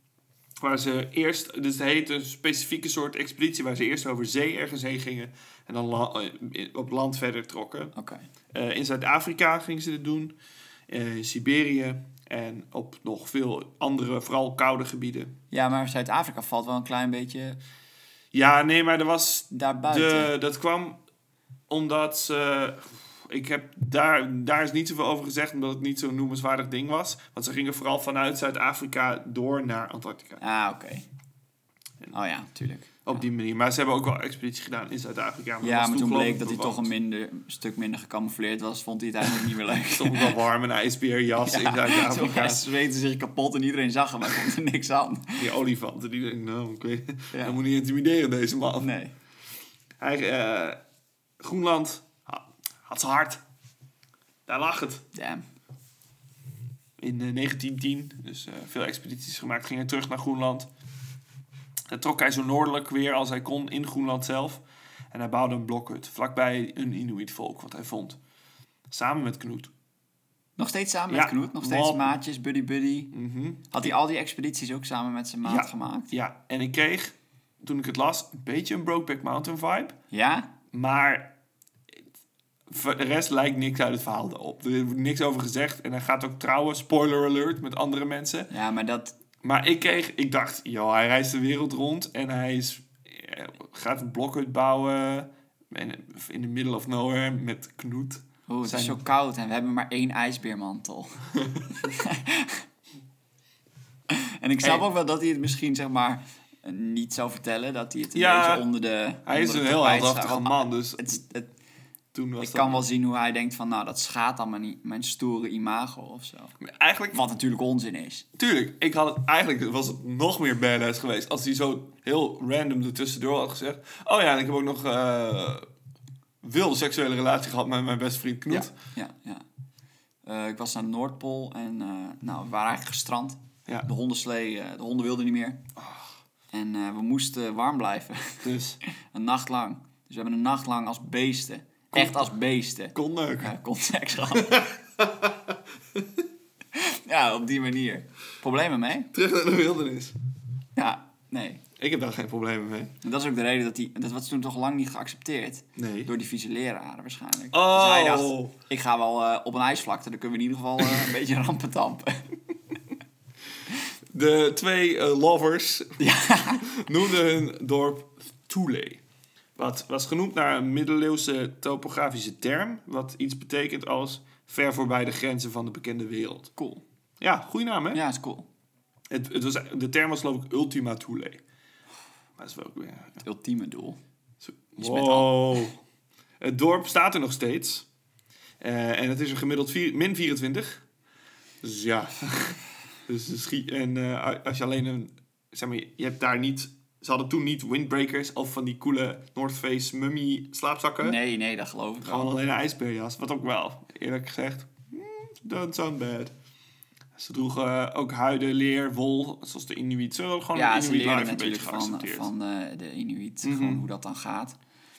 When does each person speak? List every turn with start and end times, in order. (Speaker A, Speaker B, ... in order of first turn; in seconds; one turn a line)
Speaker A: 0.6-7.9
Speaker B: 7.9-8.2
Speaker A: 8.5-10.3
Speaker A: 10.9-15.3
Speaker B: 15.5-17.6
Speaker A: 18.3-21.0
Speaker B: 19.5-20.3
Speaker A: 21.7-30.4
Speaker B: 30.4-31.0
Speaker B: 32.1-33.2
Speaker A: 33.0-36.9
Speaker B: 35.6-40.4
Speaker A: 39.9-42.7
Speaker B: 41.4-45.5
Speaker A: 45.4-48.9
Speaker B: 47.3-47.6
Speaker B: 48.8-49.1
Speaker A: 50.0-50.8
Speaker A: 51.4-53.4
Speaker A: 54.5-55.0
Speaker B: 55.1-55.4
Speaker A: 57.0-60.7
Speaker A: 61.9-68.2
Speaker A: 68.9-69.7
Speaker B: 70.6-73.1
Speaker A: 71.1-72.2
Speaker A: 73.1-73.9
Speaker B: 73.7-76.1
Speaker A: 75.4-80.0
Speaker B: 80.1-80.5
Speaker A: 80.7-81.3
Speaker A: 82.7-88.5
Speaker B: 88.5-89.1
Speaker A: 89.4-99.0
Speaker B: 98.5-102.6
Speaker B: 104.1-111.5
Speaker A: 108.1-108.6
Speaker A: 109.2-111.2
Speaker A: 112.1-112.8
Speaker B: 112.4-116.5
Speaker A: 116.6-117.2
Speaker B: 117.1-118.2
Speaker A: 118.4-125.7
Speaker A: 126.4-128.7
Speaker B: 128.5-129.4
Speaker B: 130.2-135.6
Speaker A: 135.8-136.1
Speaker B: 136.5-144.7
Speaker A: 138.4-138.8
Speaker A: 141.9-142.3
Speaker A: 142.9-143.5
Speaker A: 144.3-146.2
Speaker B: 146.7-149.1
Speaker A: 149.1-150.2
Speaker B: 150.8-151.6
Speaker A: 151.8-152.9
Speaker B: 153.0-162.3
Speaker A: 155.8-156.1
Speaker A: 157.5-158.5
Speaker A: 164.1-166.0
Speaker B: 166.0-166.7
Speaker A: 166.6-169.0
Speaker A: 169.6-176.5
Speaker B: 176.6-176.8
Speaker A: 177.2-178.0
Speaker B: 177.9-178.5
Speaker A: 179.1-181.4
Speaker A: 182.4-183.2
Speaker B: 183.2-184.0
Speaker A: 184.4-185.7
Speaker B: 184.8-185.7
Speaker A: 186.4-187.9
Speaker A: 188.6-190.8
Speaker A: 191.6-201.2
Speaker B: 201.0-202.3
Speaker A: 202.0-206.3
Speaker A: 207.1-212.3
Speaker B: 210.5-214.6
Speaker A: 213.4-213.8